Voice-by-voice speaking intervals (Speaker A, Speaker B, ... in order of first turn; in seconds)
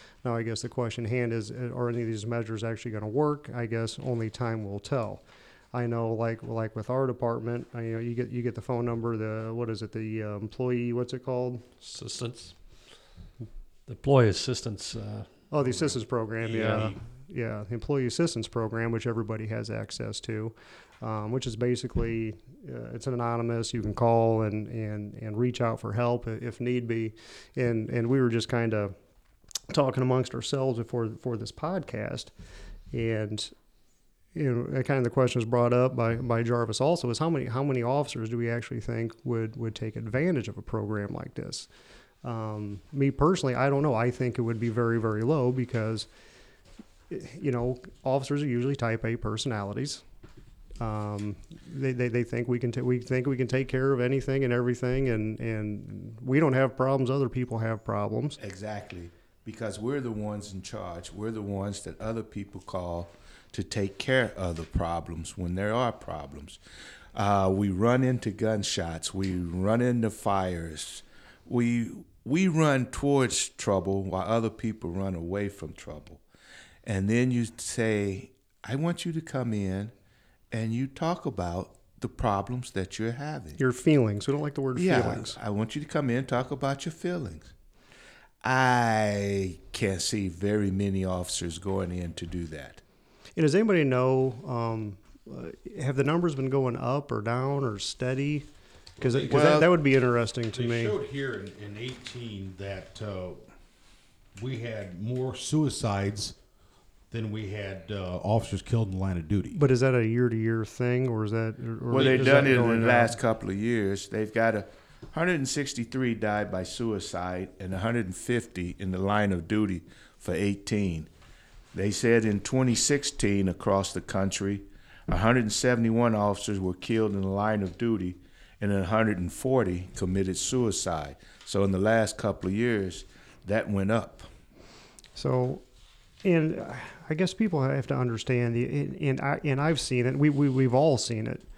Speaker A: 0.2-11.8, 15.5-28.9, 29.7-32.3, 32.9-33.5, 34.4-41.7, 42.2-46.1, 47.1-50.0, 50.8-58.4, 83.6-85.4, 93.4-98.5, 99.0-100.9, 109.5-113.2, 135.2-135.6, 136.2-141.4
Speaker B: 11.8-12.6, 13.9-15.3, 16.5-16.9
Speaker C: 16.4-17.0, 99.0-99.7, 100.5-103.4, 104.4-106.4, 107.1-109.6
Speaker D: 58.4-66.6, 67.1-76.2, 76.8-79.9, 80.5-83.6, 84.8-87.5, 88.4-92.8, 99.3-99.7, 111.9-121.1, 121.7-134.3